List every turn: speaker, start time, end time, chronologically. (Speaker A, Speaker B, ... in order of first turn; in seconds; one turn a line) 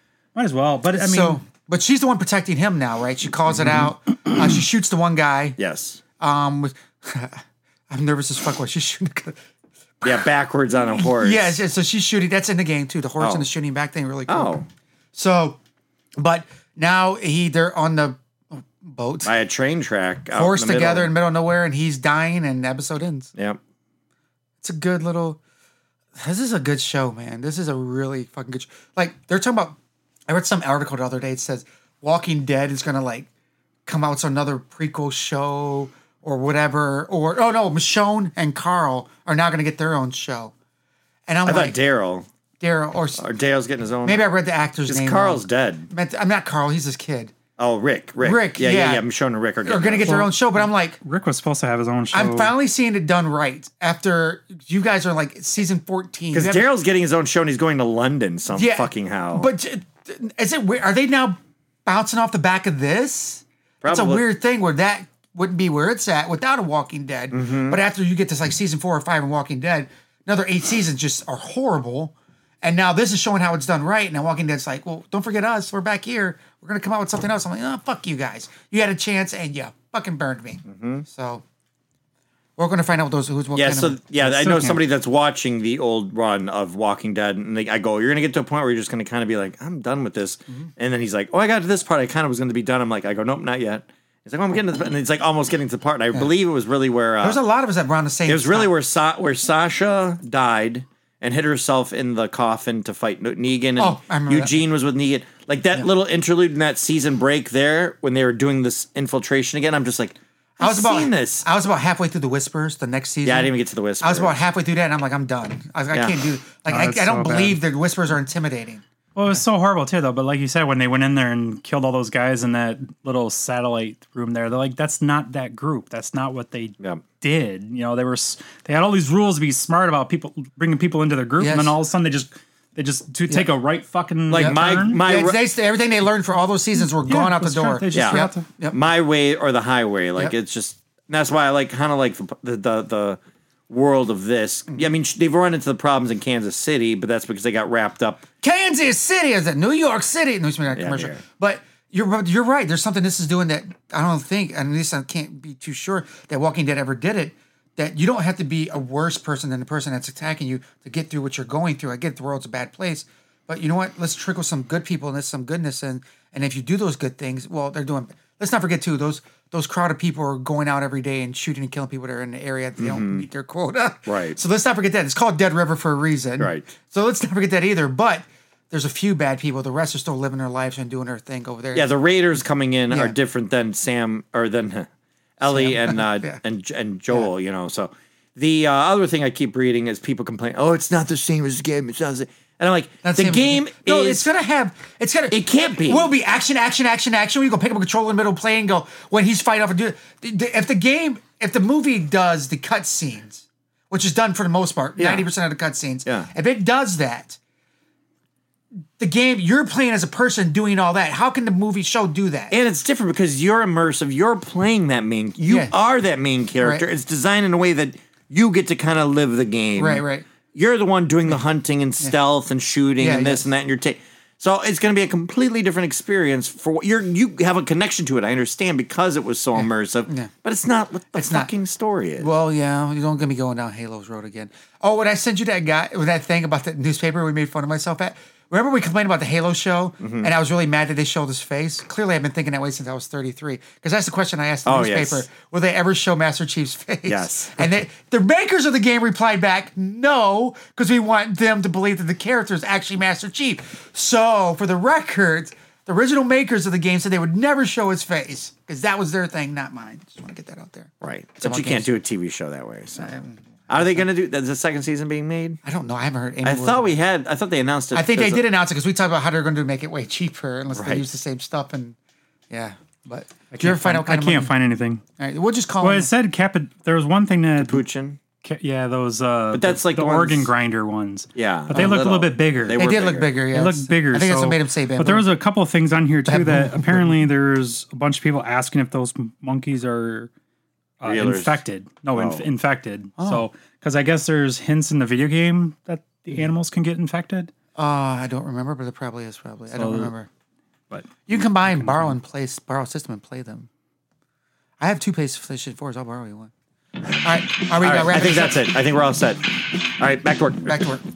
Speaker A: 0.3-1.4
Speaker B: 0.9-5.6
Speaker C: 5.6-6.0
Speaker B: 6.2-9.4
Speaker B: 10.0-10.2
Speaker C: 10.0-11.6
Speaker B: 10.9-14.6
Speaker C: 13.2-13.5
Speaker C: 14.3-14.7
Speaker B: 15.1-15.6
Speaker B: 16.2-19.3
Speaker C: 19.2-21.1
Speaker B: 20.3-23.3
Speaker B: 24.6-25.4
Speaker B: 26.2-29.8
Speaker B: 30.3-33.3
Speaker B: 33.9-40.5
Speaker B: 41.3-41.8
Speaker C: 41.5-42.3
Speaker B: 42.6-43.2
Speaker C: 43.2-44.2
Speaker B: 44.0-47.3
Speaker C: 44.9-45.9
Speaker C: 47.6-50.3
Speaker B: 48.2-49.0
Speaker B: 49.6-51.0
Speaker A: 50.1-52.5
Speaker B: 52.1-56.6
Speaker C: 56.3-59.5
Speaker B: 58.5-81.4
Speaker C: 63.8-64.2
Speaker C: 67.3-67.8
Speaker C: 80.7-81.0
Speaker B: 82.6-84.2
Speaker C: 83.5-97.4
Speaker A: 84.3-84.8
Speaker B: 97.2-98.7
Speaker C: 98.2-111.5
Speaker B: 103.8-104.6
Speaker B: 110.6-118.8
Speaker C: 113.2-114.4
Speaker C: 115.9-116.2
Speaker A: 116.7-117.6
Speaker A: 119.1-135.0
Speaker B: 131.4-131.8
Speaker C: 134.3-135.4
Speaker B: 134.3-138.8
Speaker A: 137.0-138.4
Speaker C: 137.9-148.2
Speaker B: 148.4-181.9
Speaker C: 150.8-151.2
Speaker C: 172.8-173.3
Speaker C: 174.1-174.4
Speaker C: 176.4-176.7
Speaker C: 181.7-184.9
Speaker C: 185.4-194.3
Speaker B: 185.4-186.4
Speaker B: 193.0-207.4
Speaker C: 195.3-196.1
Speaker C: 205.0-205.3
Speaker B: 209.0-212.5
Speaker C: 212.5-232.3
Speaker B: 215.5-215.7
Speaker B: 216.6-216.8
Speaker B: 219.8-220.2
Speaker B: 223.0-223.4
Speaker B: 229.6-230.3
Speaker B: 231.1-231.5
Speaker B: 232.2-261.9
Speaker C: 240.0-240.3
Speaker C: 244.7-245.2
Speaker C: 247.1-247.7
Speaker C: 261.0-263.1
Speaker B: 263.0-264.0
Speaker C: 263.7-265.6
Speaker B: 265.6-266.9
Speaker C: 266.4-268.4
Speaker B: 267.9-271.9
Speaker C: 270.7-271.1
Speaker B: 272.5-274.5
Speaker A: 273.5-275.0
Speaker B: 275.2-276.1
Speaker A: 275.8-277.8
Speaker C: 277.6-278.2
Speaker A: 278.4-282.8
Speaker C: 279.5-280.5
Speaker C: 281.3-283.3
Speaker B: 281.7-282.0
Speaker B: 282.7-285.3
Speaker A: 283.4-290.3
Speaker B: 286.3-287.1
Speaker A: 291.0-297.5
Speaker C: 291.0-291.6
Speaker C: 292.1-292.5
Speaker B: 293.2-293.4
Speaker B: 297.8-300.3
Speaker A: 299.7-300.1
Speaker A: 300.9-302.1
Speaker B: 301.2-303.7
Speaker B: 304.8-306.5
Speaker B: 307.2-308.7
Speaker C: 307.7-310.9
Speaker B: 310.7-311.0